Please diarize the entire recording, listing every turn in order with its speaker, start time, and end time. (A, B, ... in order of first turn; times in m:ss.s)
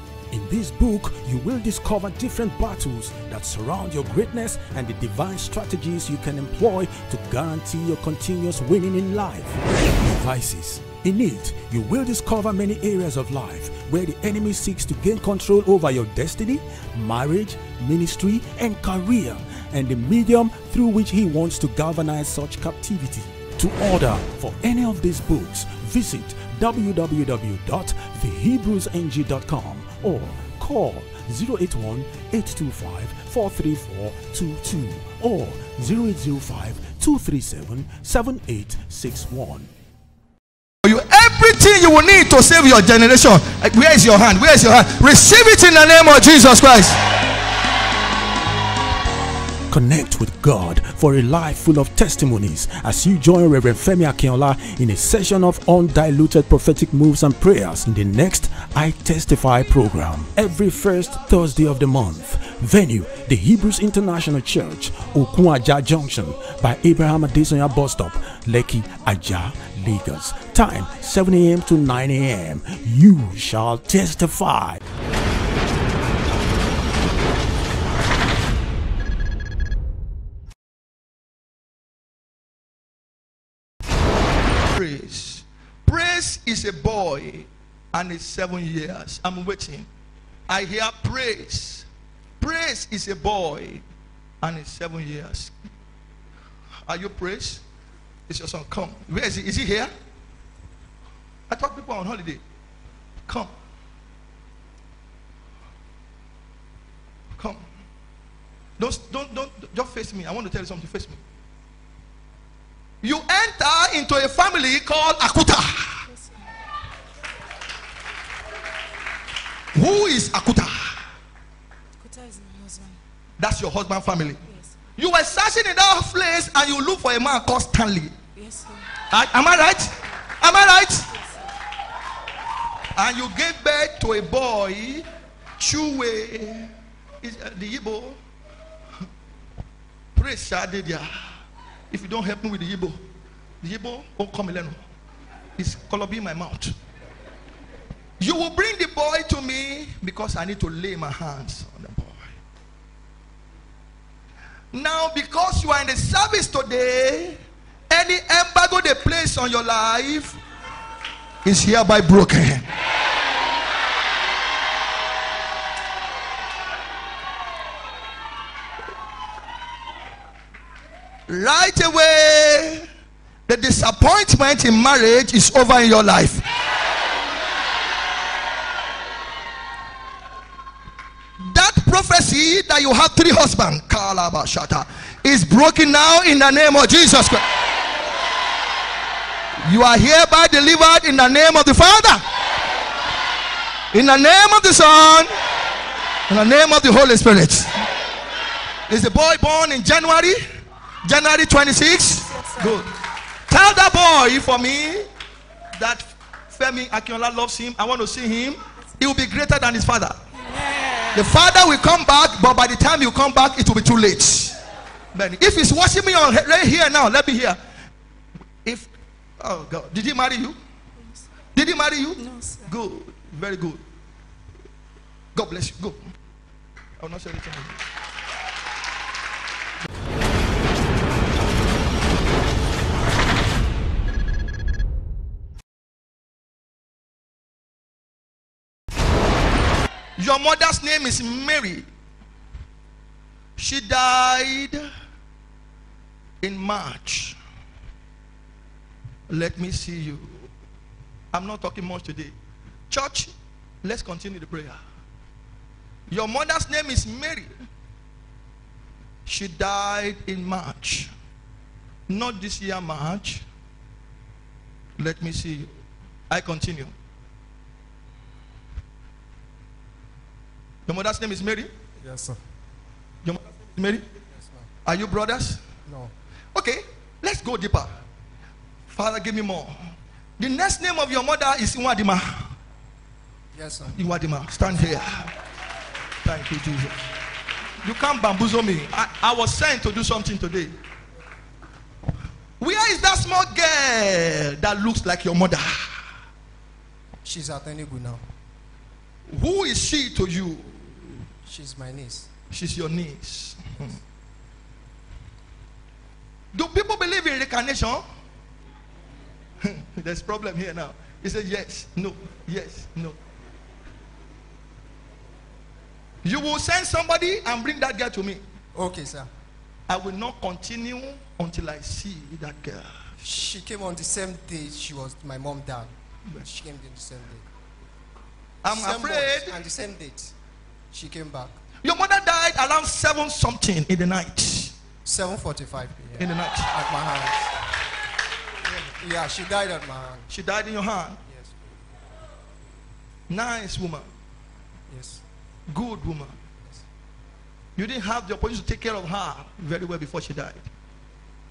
0:00.3-0:39.7 A
0:40.8-0:47.0 B
0:49.7-1:14.8 A
1:24.7-1:29.9 B
1:30.5-1:31.8 B
1:32.4-1:33.8 B
1:34.4-1:35.5 B
1:36.8-1:37.6 B
1:38.3-1:39.9 B
1:41.5-1:42.4 B
1:47.4-1:47.6 B
1:48.8-1:51.2 B
1:53.0-1:56.0 B
1:56.1-1:56.4 C
1:59.7-2:01.0 B
2:02.0-2:03.0 C
2:03.4-2:04.4 B
2:04.5-2:04.7 C
2:05.0-2:08.1 B
2:08.3-2:09.0 C
2:09.1-2:11.1 B
2:11.1-2:11.5 C
2:13.0-2:15.0 B
2:15.6-2:16.7 B
2:17.2-2:18.2 B
2:20.1-2:21.3 B
2:21.9-2:23.0 B
2:23.6-2:24.8 B
2:25.6-2:26.7 B
2:28.2-2:32.3 B
2:34.7-2:40.4 B
2:41.4-2:42.6 B
2:51.3-2:52.8 B
2:53.5-2:56.4 B
3:01.4-3:07.4 B
3:09.6-3:12.2 B
3:13.9-3:15.3 B
3:16.3-3:17.7 B
3:18.9-3:20.4 B
3:21.0-3:22.9 B
3:22.3-3:22.8 C
3:23.5-3:25.0 B
3:25.8-3:30.2 B
3:30.4-3:31.2 C
3:31.1-3:34.6 B
3:35.1-3:37.6 B
3:39.4-3:40.6 B
3:41.5-3:43.8 B
3:42.2-3:42.7 C
3:45.3-3:46.1 B
3:47.0-3:47.8 B
4:00.2-4:01.8 B
4:03.6-4:04.9 B
4:06.4-4:07.4 B
4:09.3-4:10.5 B
4:11.3-4:12.3 B
4:12.9-4:14.8 B
4:16.1-4:17.5 B
4:19.2-4:21.1 B
4:22.1-4:23.4 B
4:25.0-4:25.7 B
4:26.3-4:26.9 B
4:30.9-4:31.7 B
4:32.0-4:32.4 D
4:33.2-4:34.0 B
4:34.3-4:34.7 D
4:34.8-4:35.6 B
4:35.9-4:36.1 D
4:36.5-4:37.9 B
4:38.9-4:39.8 B
4:40.4-4:42.5 B
4:43.5-4:44.0 D
4:43.9-4:45.3 B
4:46.2-4:47.1 B
4:47.8-4:50.7 B
4:52.6-4:56.1 B
4:57.2-4:58.2 D
4:59.3-5:01.1 B
5:01.4-5:02.3 D
5:02.5-5:03.9 B
5:06.5-5:08.0 B
5:09.6-5:13.2 B
5:16.2-5:18.4 B
5:18.7-5:19.3 D
5:19.9-5:22.9 B
5:23.2-5:27.4 D
5:28.6-5:29.6 B
5:28.7-5:30.3 D
5:30.9-5:31.6 D
5:31.8-5:34.7 B
5:35.0-5:37.5 D
5:36.2-5:36.7 B
5:38.6-5:40.3 D
5:40.3-5:41.2 B
5:41.2-5:41.6 D
5:43.3-5:44.1 B
5:44.9-5:45.2 D
5:45.7-5:46.4 B
5:47.8-5:50.7 B